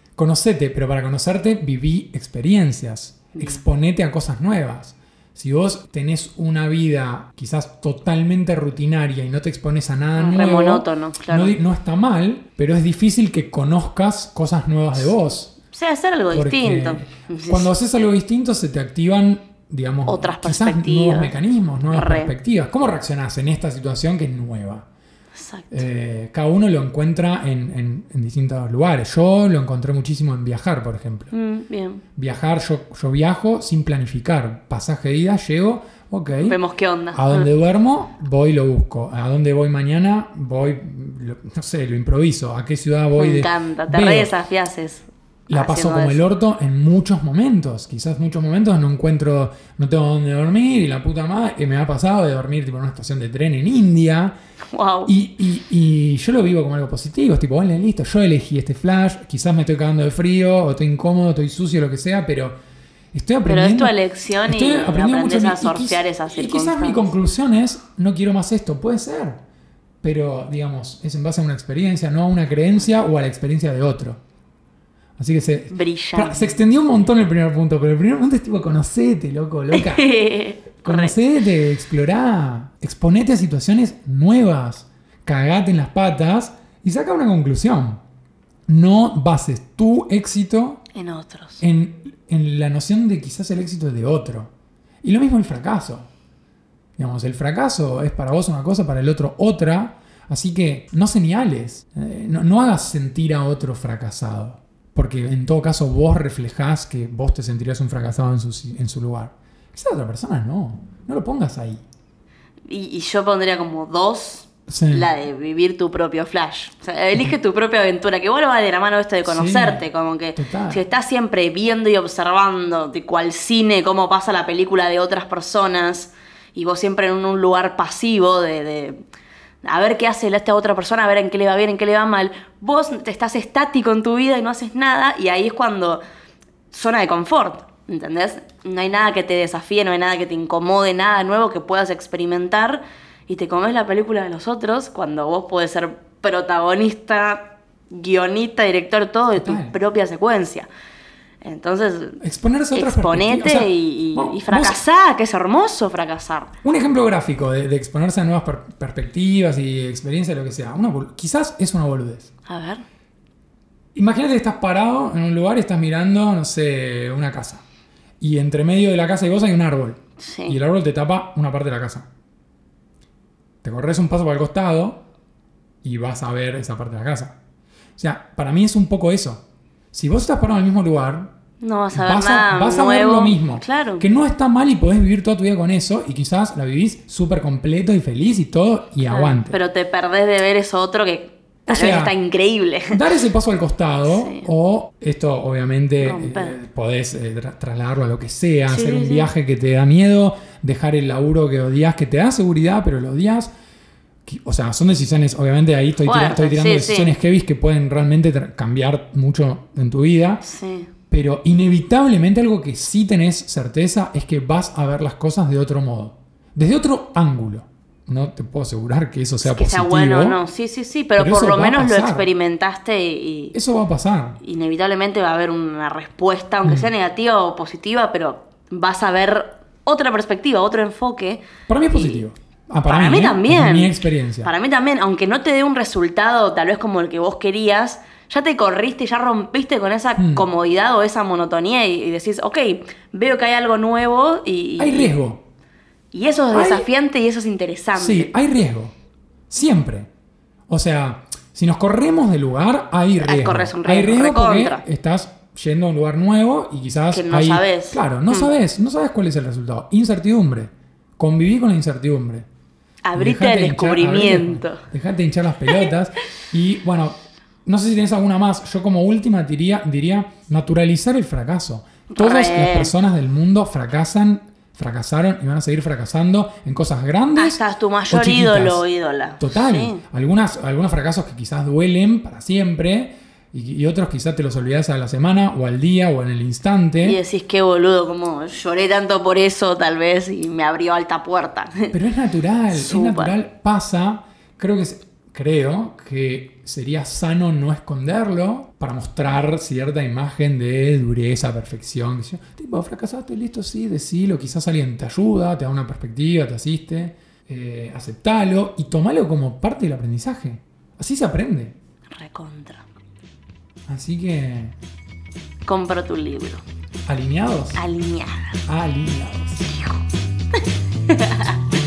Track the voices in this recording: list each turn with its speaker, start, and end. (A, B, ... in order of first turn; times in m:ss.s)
0:00.2-0:15.6 A
0:03.3-0:03.6 B
0:10.2-0:11.6 B
0:15.7-0:17.7 B
0:16.3-0:24.9 A
0:20.1-0:21.3 B
0:21.9-0:22.3 B
0:25.4-0:25.8 B
0:25.7-0:31.3 A
0:31.3-0:32.0 B
0:32.2-0:36.6 A
0:36.4-0:37.5 B
0:37.1-0:44.3 A
0:43.2-0:46.2 B
0:45.5-0:54.4 A
0:54.7-0:55.1 B
0:55.1-1:02.6 A
1:03.1-1:09.4 A
1:03.5-1:07.1 B
1:10.0-1:14.2 A
1:15.2-1:20.1 A
1:15.7-1:16.6 B
1:19.7-1:21.2 B
1:20.8-1:28.0 A
1:28.7-1:30.8 A
1:30.9-1:31.6 B
1:31.6-1:34.5 A
1:35.0-1:36.1 A
1:37.0-1:51.8 A
1:52.7-2:09.0 B
1:54.7-1:55.1 A
1:59.3-1:59.8 A
2:00.4-2:00.8 A
2:09.6-2:16.0 B
2:16.7-2:30.7 B
2:29.4-2:29.8 A
2:31.4-2:32.2 B
2:32.2-2:34.8 A
2:32.7-2:36.5 B
2:36.6-2:42.3 A
2:42.5-2:42.8 B
2:44.0-2:47.6 A
2:48.2-2:52.1 A
2:50.2-2:50.6 B
2:53.6-2:55.0 A
2:55.8-2:57.4 A
2:58.0-3:01.3 A
3:01.6-3:04.1 B
3:01.9-3:09.6 A
3:09.1-3:13.0 B
3:11.7-3:12.2 A
3:12.9-3:23.5 A
3:14.1-3:14.5 B
3:16.0-3:16.6 B
3:18.7-3:19.3 B
3:24.3-3:30.4 A
3:26.0-3:27.1 B
3:30.4-3:30.9 B
3:31.1-3:40.4 A
3:39.4-3:43.6 B
3:41.2-3:42.3 A
3:43.5-3:44.4 A
3:44.4-3:52.2 B
3:51.7-3:54.5 A
3:52.9-3:53.9 B
3:54.4-4:05.2 B
4:00.2-4:00.5 A
4:04.8-4:05.4 A
4:06.1-4:08.3 B
4:06.5-4:06.9 A
4:08.0-4:08.9 A
4:09.5-4:10.1 A
4:10.7-4:22.5 A
4:13.2-4:14.8 B
4:17.1-4:18.5 B
4:23.0-4:24.8 B
4:23.2-4:38.8 A
4:32.1-4:32.9 B
4:37.4-4:40.0 B
4:39.4-4:47.2 A
4:47.0-4:51.9 B
4:51.9-5:11.8 A
4:52.7-4:53.4 B
5:12.2-5:12.9 B
5:13.9-5:14.8 A
5:15.7-5:16.6 B
5:17.1-5:17.8 A
5:17.8-5:18.6 B
5:18.7-5:19.7 A
5:19.7-5:20.0 B
5:20.5-5:21.6 B